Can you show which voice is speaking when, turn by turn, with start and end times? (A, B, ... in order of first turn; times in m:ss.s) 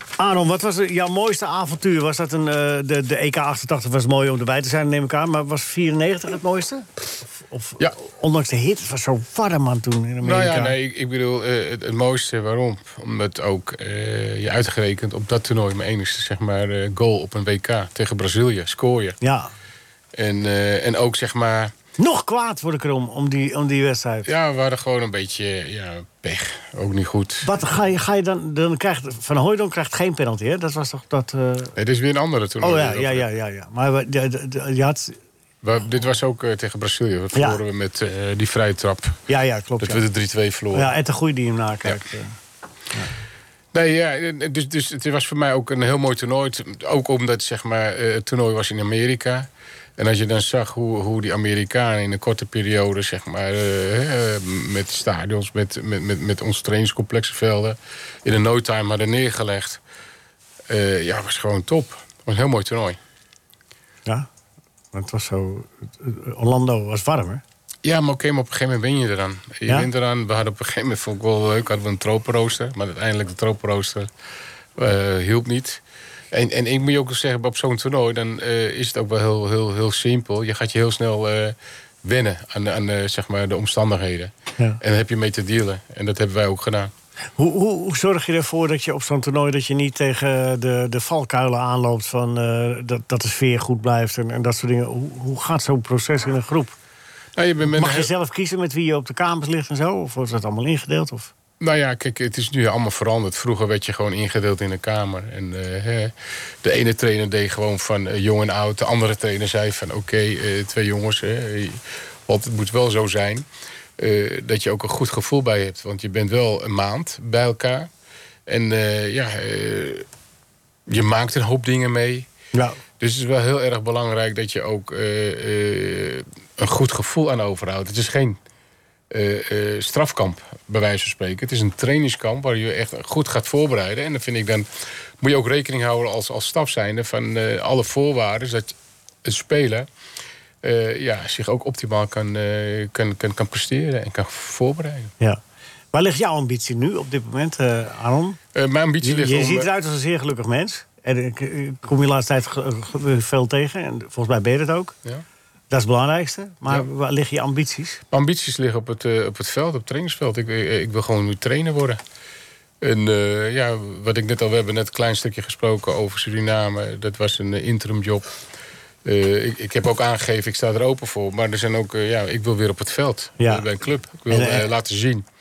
0:00.2-0:06.8 A
0:07.5-0:10.7 A
0:10.2-0:19.2 B
0:19.2-0:19.5 A
0:20.1-0:21.7 B
0:22.0-0:24.3 A
0:24.2-0:27.5 B
0:27.4-0:31.7 A
0:31.8-0:33.2 B
0:32.6-0:35.2 A
0:35.6-0:39.2 B
0:37.3-0:37.6 A
0:39.3-0:40.0 A
0:39.8-0:40.9 B
0:40.7-0:42.3 A
0:43.7-0:59.8 B
1:00.7-1:03.0 B
1:04.9-1:07.4 A
1:07.8-1:14.1 B
1:14.8-1:15.8 B
1:16.3-1:26.9 B
1:27.4-1:36.7 A
1:37.4-1:38.1 B
1:37.6-1:41.3 A
1:41.6-1:53.4 B
1:54.0-1:57.9 B
1:58.5-2:00.0 B
2:00.9-2:02.3 B
2:03.0-2:08.4 B
2:09.1-2:14.7 B
2:15.2-2:18.7 B
2:19.2-2:19.9 B
2:20.6-2:25.1 B
2:25.9-2:28.4 A
2:28.5-2:29.7 B
2:29.0-2:34.9 A
2:35.7-2:38.0 A
2:38.1-2:42.0 B
2:42.8-2:48.3 B
2:49.0-2:55.2 B
2:53.4-2:53.7 A
2:54.3-2:54.7 A